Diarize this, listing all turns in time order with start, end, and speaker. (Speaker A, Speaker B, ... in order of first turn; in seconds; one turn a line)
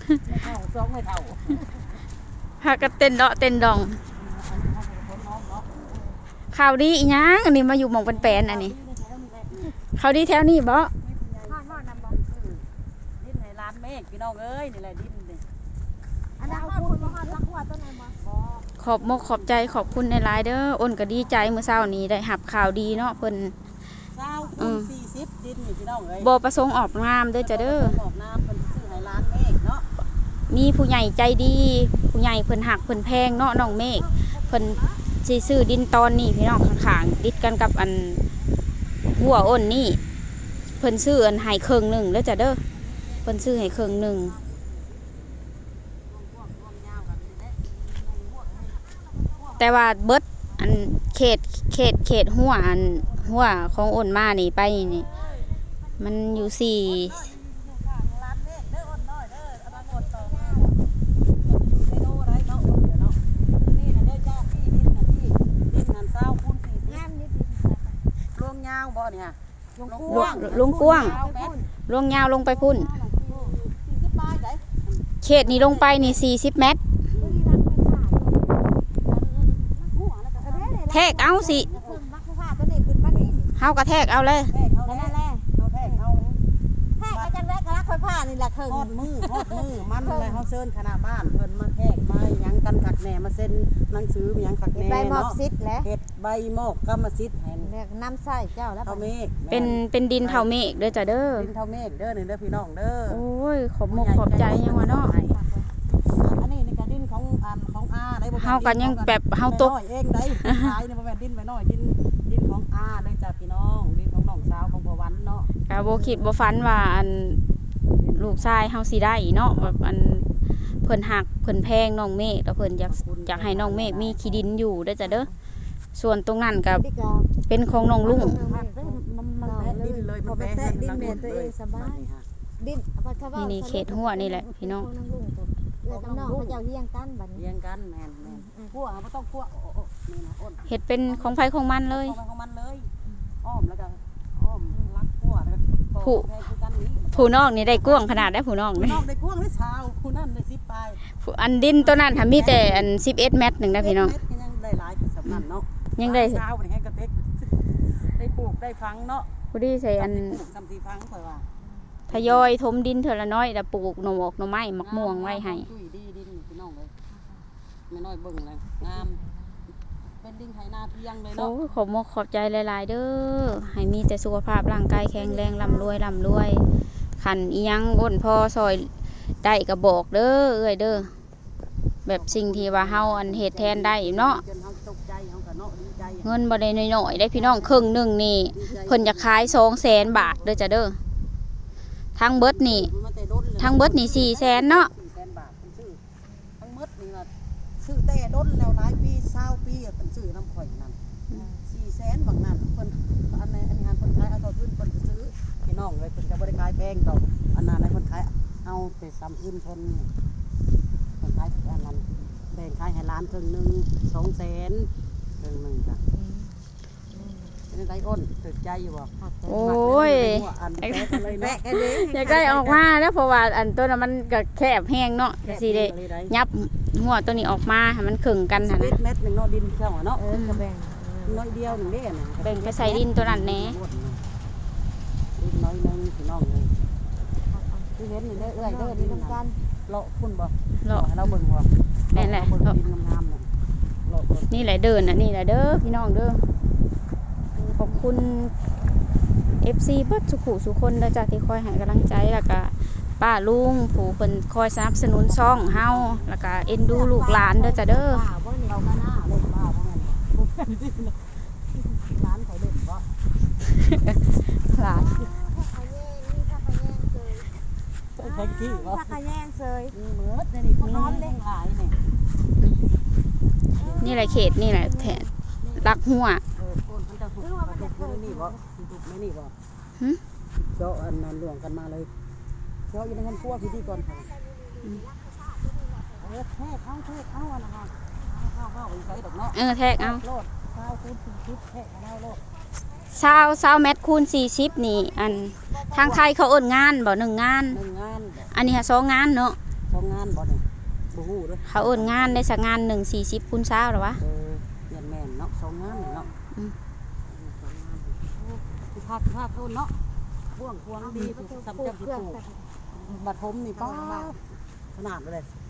Speaker A: 0.2-1.6
Speaker B: 2.6-4.0
Speaker A: 4.1-5.7
Speaker B: 6.5-8.8
Speaker A: 8.1-9.7
Speaker B: 9.9-10.9
Speaker A: 11.0-12.6
Speaker C: 11.4-12.2
Speaker A: 13.2-15.4
Speaker C: 16.4-18.2
Speaker A: 16.4-17.4
Speaker A: 18.2-19.6
Speaker B: 18.8-23.5
Speaker A: 24.1-26.3
Speaker B: 24.6-24.9
Speaker B: 26.2-28.0
Speaker A: 27.4-29.9
Speaker B: 30.5-38.2
Speaker A: 33.4-35.0
Speaker B: 39.1-40.0
Speaker B: 40.8-42.6
Speaker A: 42.9-45.2
Speaker B: 43.2-44.4
Speaker A: 46.1-49.7
Speaker B: 49.6-55.1
Speaker A: 54.8-55.6
Speaker B: 56.0-57.2
Speaker A: 56.3-60.8
Speaker C: 59.7-60.9
Speaker A: 61.4-67.0
Speaker C: 66.8-67.9
Speaker A: 68.3-71.6
Speaker C: 69.8-71.7
Speaker B: 70.1-71.2
Speaker B: 71.9-72.9
Speaker A: 72.5-76.2
Speaker C: 73.3-73.5
Speaker B: 75.2-76.8
Speaker A: 77.1-77.4
Speaker C: 77.2-78.6
Speaker A: 79.0-82.0
Speaker C: 80.4-83.5
Speaker B: 80.9-81.7
Speaker B: 83.6-84.5
Speaker A: 84.5-86.3
Speaker C: 84.8-86.0
Speaker C: 87.0-90.5
Speaker A: 87.1-87.3
Speaker A: 88.7-97.7
Speaker C: 94.7-95.9
Speaker C: 97.6-99.1
Speaker A: 98.8-103.2
Speaker B: 99.5-101.5
Speaker B: 103.1-105.1
Speaker A: 103.9-105.4
Speaker C: 105.0-105.7
Speaker A: 106.0-115.5
Speaker B: 108.3-109.7
Speaker B: 110.4-110.7
Speaker B: 115.7-117.4
Speaker C: 115.7-116.3
Speaker A: 117.9-118.5
Speaker B: 118.2-120.2
Speaker B: 120.8-125.3
Speaker A: 122.8-124.5
Speaker C: 125.0-125.3
Speaker B: 125.9-126.8
Speaker C: 126.7-127.3
Speaker B: 127.5-128.4
Speaker A: 127.7-132.2
Speaker C: 128.0-132.1
Speaker C: 132.6-137.4
Speaker B: 133.3-134.9
Speaker A: 135.9-136.6
Speaker A: 137.3-141.3
Speaker C: 138.2-138.8
Speaker B: 140.7-142.2
Speaker A: 141.9-142.9
Speaker A: 143.4-151.0
Speaker B: 147.1-149.0
Speaker B: 151.2-154.1
Speaker A: 151.8-152.9
Speaker A: 153.6-159.3
Speaker B: 156.0-156.4
Speaker B: 159.5-160.4
Speaker A: 159.9-161.4
Speaker C: 161.6-161.9
Speaker A: 162.1-162.5
Speaker B: 162.1-165.7
Speaker A: 164.8-166.9
Speaker C: 167.1-167.4
Speaker A: 167.9-169.2
Speaker C: 168.8-169.6
Speaker A: 170.2-171.5
Speaker B: 171.3-176.6
Speaker C: 175.1-176.0
Speaker B: 177.2-178.9
Speaker B: 179.4-181.1
Speaker B: 182.1-184.4
Speaker A: 182.1-186.4
Speaker B: 186.2-191.0
Speaker A: 187.3-187.9
Speaker A: 188.5-190.6
Speaker B: 192.2-192.9
Speaker A: 192.4-196.0
Speaker B: 193.6-194.9
Speaker C: 196.2-196.6
Speaker A: 196.6-197.3
Speaker A: 197.8-201.0
Speaker C: 201.3-201.7
Speaker A: 201.6-210.1
Speaker A: 211.2-216.0
Speaker C: 216.1-216.5
Speaker C: 217.1-217.6
Speaker A: 217.7-221.6
Speaker C: 219.2-219.7
Speaker B: 219.5-221.2
Speaker C: 221.2-222.8
Speaker B: 221.7-228.9
Speaker A: 225.4-226.3
Speaker A: 228.6-230.2
Speaker C: 230.1-232.0
Speaker B: 230.3-230.6
Speaker A: 231.2-234.2
Speaker B: 232.4-233.8
Speaker A: 235.4-236.7
Speaker C: 237.5-239.6
Speaker A: 237.9-243.5
Speaker B: 242.1-242.7
Speaker A: 244.1-244.7
Speaker B: 244.5-246.4
Speaker B: 247.8-248.5
Speaker B: 249.6-258.2
Speaker A: 255.2-256.4
Speaker C: 256.6-258.9
Speaker A: 258.7-261.2
Speaker A: 262.1-263.1
Speaker B: 263.8-265.3
Speaker C: 264.7-267.6
Speaker A: 268.1-269.2
Speaker C: 268.2-269.9
Speaker A: 269.9-272.0
Speaker C: 270.8-271.4
Speaker C: 273.7-275.7
Speaker A: 273.8-274.4
Speaker B: 274.0-276.4
Speaker A: 276.5-279.5
Speaker C: 277.4-278.6
Speaker A: 280.6-282.1
Speaker A: 282.9-284.3
Speaker C: 283.0-286.4
Speaker A: 286.2-292.4
Speaker B: 289.5-290.2
Speaker B: 293.1-297.8
Speaker A: 293.2-293.5
Speaker C: 294.9-295.8
Speaker A: 295.6-296.3
Speaker A: 297.7-298.5
Speaker B: 298.5-299.6
Speaker A: 299.9-302.4
Speaker B: 301.7-304.2
Speaker A: 304.2-306.3
Speaker A: 307.3-310.0
Speaker A: 310.5-312.4
Speaker C: 311.0-312.7
Speaker A: 312.9-314.4
Speaker C: 313.7-314.3
Speaker A: 314.9-315.5